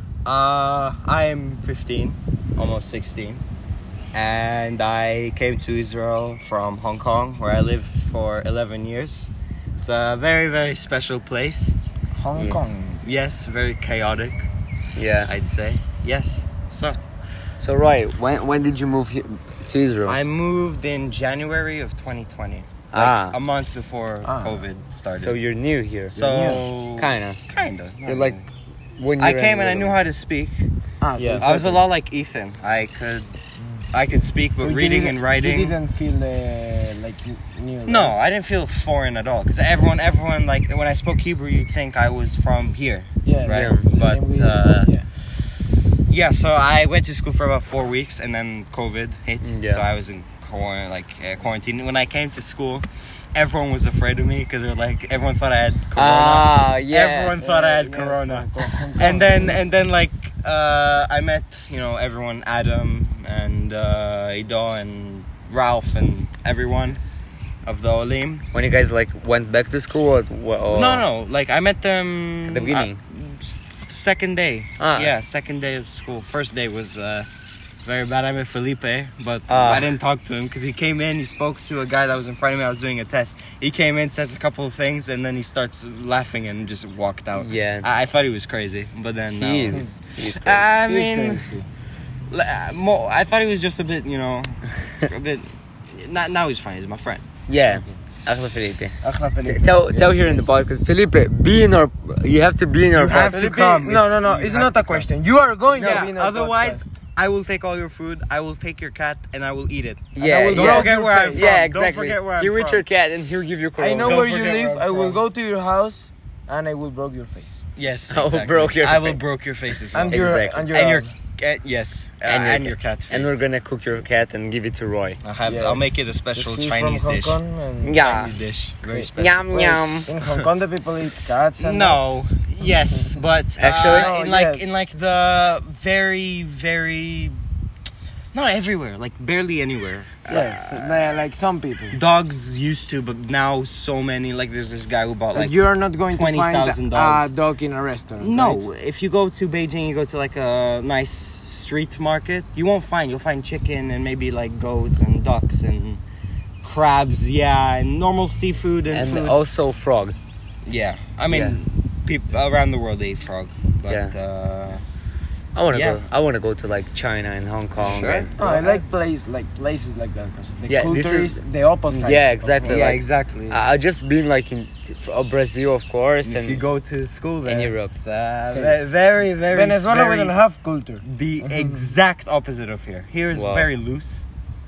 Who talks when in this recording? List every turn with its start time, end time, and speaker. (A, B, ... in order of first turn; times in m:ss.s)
0:00.2-0:03.4 A
0:04.1-0:11.8 A
0:12.2-0:13.0 B
0:12.3-0:12.6 C
0:13.0-0:14.5 A
0:15.0-0:15.3 C
0:15.2-0:17.0 A
0:17.6-0:20.2 C
0:20.0-0:25.4 A
0:22.9-0:23.4 C
0:24.2-0:24.6 B
0:25.1-0:26.2 C
0:26.1-0:26.7 B
0:26.1-0:28.5 A
0:27.0-0:27.4 C
0:28.0-0:28.4 C
0:29.0-0:30.0 C
0:29.2-0:30.6 A
0:31.0-0:31.9 B
0:31.2-0:31.5 C
0:31.4-0:33.3 A
0:33.9-0:35.8 A
0:34.6-0:38.1 B
0:37.8-0:44.9 A
0:43.2-0:45.0 B
0:43.5-0:43.8 C
0:46.1-1:07.0 A
0:49.4-0:49.8 C
0:55.9-0:57.3 C
0:57.4-0:59.6 B
1:07.6-1:08.4 A
1:08.5-1:11.0 C
1:10.7-1:17.3 A
1:12.5-1:13.0 C
1:14.8-1:15.1 C
1:17.8-1:31.5 A
1:19.5-1:19.9 C
1:27.3-1:27.9 C
1:29.4-1:30.6 C
1:30.8-1:31.7 B
1:32.3-1:37.2 A
1:37.5-1:43.3 C
1:39.0-1:40.5 B
1:42.9-1:45.1 A
1:43.3-1:46.9 B
1:45.7-1:52.8 A
1:50.1-1:54.3 C
1:50.2-1:51.5 B
1:53.8-1:57.6 B
1:54.0-1:55.2 A
1:57.8-2:03.4 A
1:58.1-1:59.2 C
1:59.9-2:01.1 B
2:00.1-2:00.6 C
2:02.2-2:05.2 C
2:05.2-2:07.4 A
2:05.4-2:08.0 B
2:07.8-2:08.3 C
2:07.9-2:09.5 A
2:08.9-2:12.1 B
2:09.2-2:10.1 C
2:11.6-2:17.4 A
2:13.6-2:14.1 C
2:13.8-2:14.7 B
2:18.3-2:21.2 A
2:20.3-2:22.0 B
2:21.9-2:27.3 A
2:25.3-2:28.6 B
2:28.2-2:36.0 A
2:36.6-2:39.4 A
2:38.9-2:40.2 C
2:40.6-2:44.8 A
2:41.3-2:41.6 C
2:43.9-2:44.1 C
2:45.5-2:48.3 C
2:45.7-2:46.0 A
2:47.8-2:48.8 A
2:48.4-2:52.9 B
2:50.7-2:56.6 C
2:52.6-2:53.6 A
2:56.2-3:00.4 A
2:57.4-2:57.9 C
2:58.4-2:58.8 B
2:59.5-3:01.9 B
3:01.0-3:04.2 A
3:03.3-3:03.7 C